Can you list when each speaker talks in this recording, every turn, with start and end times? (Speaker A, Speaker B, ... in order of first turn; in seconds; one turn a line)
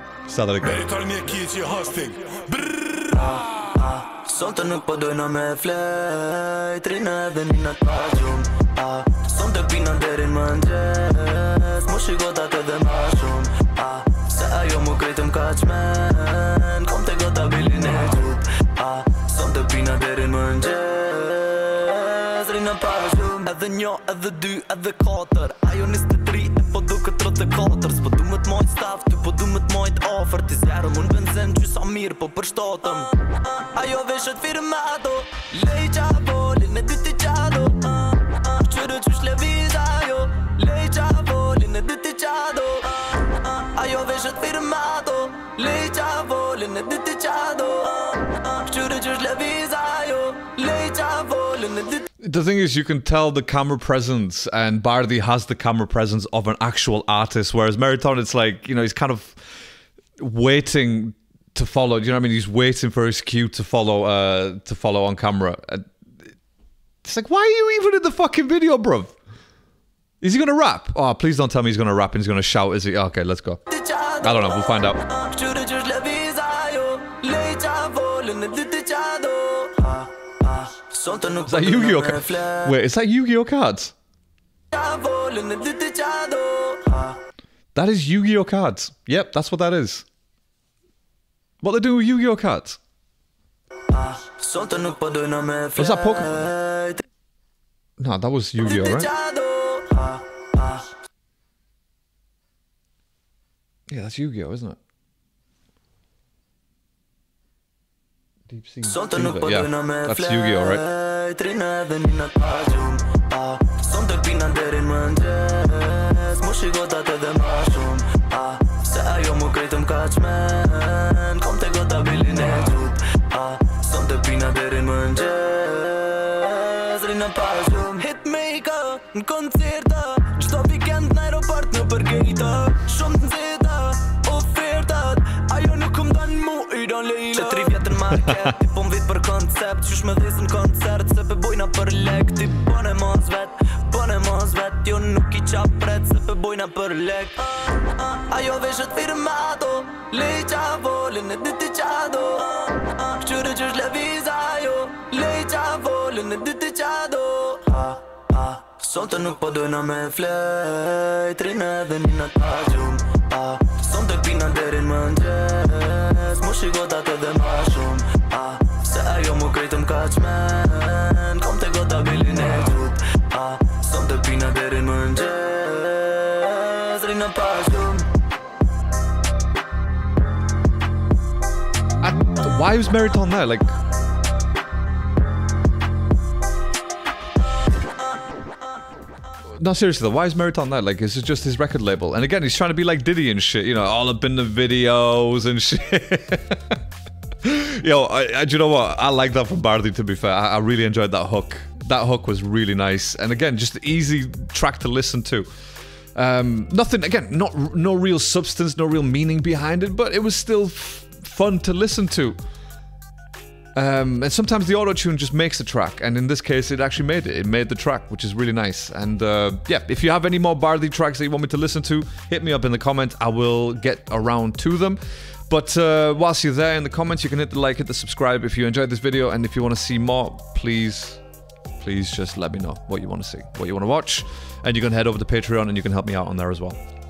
Speaker A: 0.3-0.8
Speaker B: 0.6-3.4
Speaker C: 3.1-52.1
Speaker A: 52.2-59.5
Speaker A: 60.2-65.9
Speaker A: 67.0-69.1
Speaker A: 70.2-73.6
Speaker C: 73.7-82.7
Speaker A: 74.2-75.0
Speaker A: 81.5-84.0
Speaker C: 84.7-87.2
Speaker A: 87.7-90.0
Speaker A: 91.6-92.8
Speaker C: 93.9-97.0
Speaker A: 95.8-96.5
Speaker A: 98.0-99.1
Speaker C: 98.6-100.9
Speaker A: 103.9-104.8
Speaker A: 108.5-110.8
Speaker C: 108.8-178.1
Speaker A: 182.0-183.8
Speaker A: 189.5-196.8
Speaker A: 197.4-205.5
Speaker A: 206.2-212.4
Speaker A: 213.8-231.2
Speaker A: 231.8-236.8